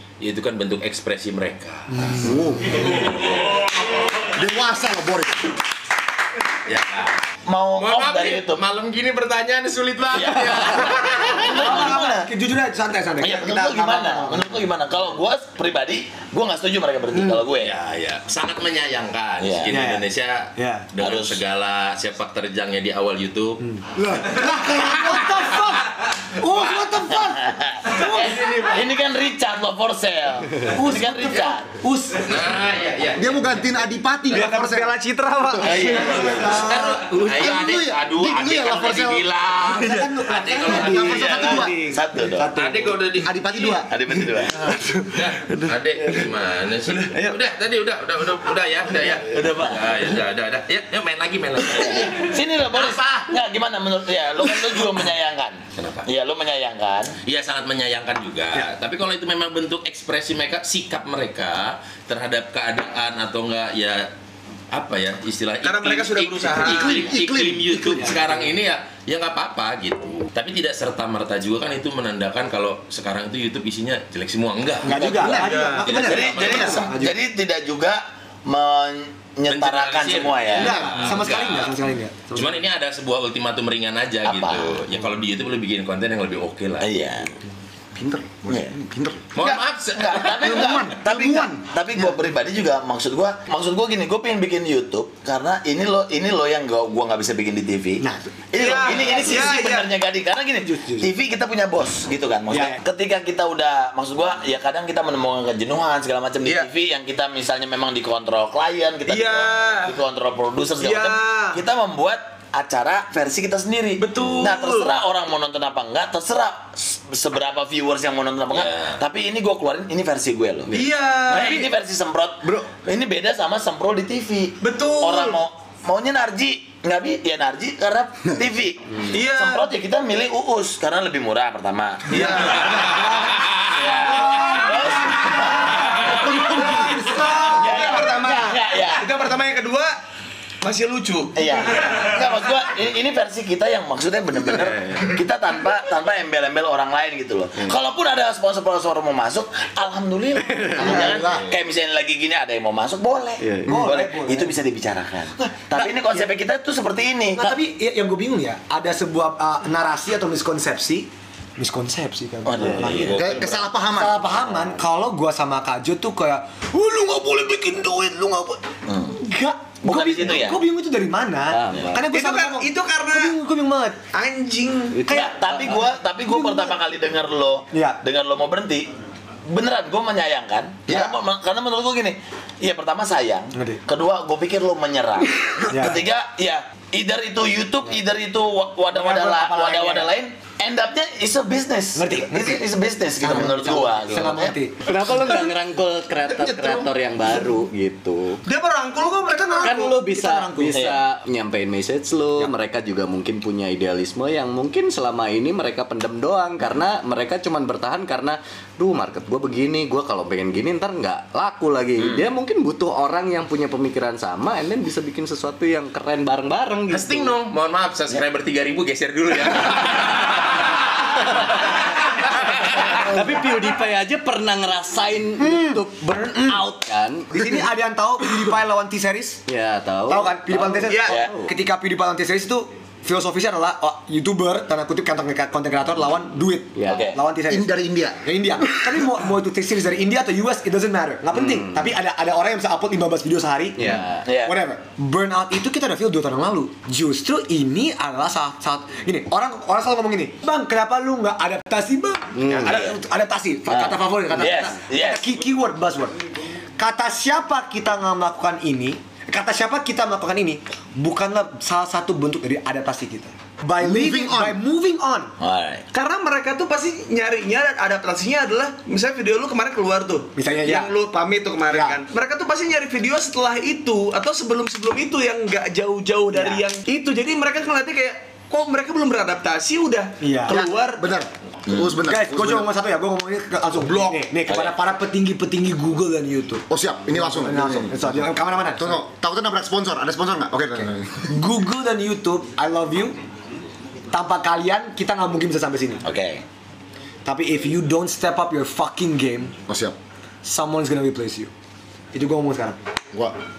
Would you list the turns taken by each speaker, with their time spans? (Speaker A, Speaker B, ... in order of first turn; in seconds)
Speaker A: 0.2-4.3, 6.7-7.1, 7.8-11.7, 17.6-23.6, 24.4-25.5, 30.8-31.6, 32.2-33.6, 35.8-41.7, 42.5-43.9, 45.1-53.3, 55.8-56.0, 57.2-64.1, 64.7-75.4, 75.9-76.8, 79.5-81.8, 82.3-86.9, 89.3-90.9, 216.9-223.0
Speaker B: 2.1-2.9, 4.3-5.5, 33.1-34.9, 37.1-39.2, 40.7-41.7, 43.2-43.9, 66.6-68.2, 75.2-76.8, 80.5-81.0, 88.0-89.3, 90.3-91.6, 136.0-137.3, 150.8-151.4, 163.1-164.3, 196.3-196.9, 237.5-239.1, 263.8-264.6, 280.5-282.7, 286.7-291.5, 299.7-300.0
Speaker C: 7.5-8.6, 10.1-12.3, 13.2-17.7, 19.4-19.7, 21.0-21.4, 26.5-31.7, 35.6-36.7, 37.5-39.9, 41.9-42.5, 43.9-44.6, 49.3-49.9, 51.7-57.1, 66.6-68.0, 75.0-80.9, 84.2-84.8, 86.8-87.3, 88.5-88.7, 89.4-136.2, 137.6-139.1, 141.3-157.6, 162.4-163.6, 168.9-169.2, 169.8-170.6, 175.1-178.9, 179.5-194.6, 200.7-201.0, 212.0-212.2, 236.9-237.2, 244.2-244.6, 252.7-253.0, 253.7-255.3, 265.4-265.8, 281.7-281.9, 284.5-284.8, 296.0-296.4
Speaker D: 11.2-14.4, 17.1-17.4, 19.7-20.9, 23.6-28.8, 31.8-32.6, 34.3-37.2, 39.7-43.1, 74.8-77.2, 80.6-82.6, 91.1-92.2, 98.0-99.4, 100.8-101.1, 102.5-102.8, 153.7-154.5, 155.7-156.3, 157.4-166.7, 169.1-174.1, 176.3-176.8, 177.7-178.0, 180.9-181.2, 183.6-183.8, 185.7-186.0, 188.9-190.1, 192.0-192.7, 193.2-195.3, 199.4-199.8, 225.4-226.6, 227.3-229.4, 230.1-237.7, 238.2-256.2, 256.8-265.3, 270.4-270.9, 271.7-272.0, 276.3-276.6, 280.2-280.6, 282.1-289.0, 290.8-293.2, 294.1-296.0, 297.2-299.6, 300.4-301.5, 302.1-302.8
Speaker E: 34.4-36.0, 46.9-47.4, 65.6-66.9, 75.3-76.0, 98.5-99.9, 106.4-106.7, 109.1-110.0, 110.8-111.6, 114.0-115.0, 120.7-121.7, 124.6-125.4, 129.1-129.7, 132.1-133.1, 136.8-140.0, 140.6-141.4, 166.8-168.6, 172.0-173.3, 174.1-175.1, 198.4-200.8, 230.8-231.2, 265.9-281.1, 283.8-284.3
Speaker F: 150.5-150.8, 153.4-153.8, 162.6-163.1, 164.5-164.7, 171.5-171.9, 174.9-175.9, 194.9-198.4, 199.6-217.4, 222.9-227.3, 229.5-231.5, 236.8-237.1, 241.3-241.9, 243.8-244.2, 252.3-252.8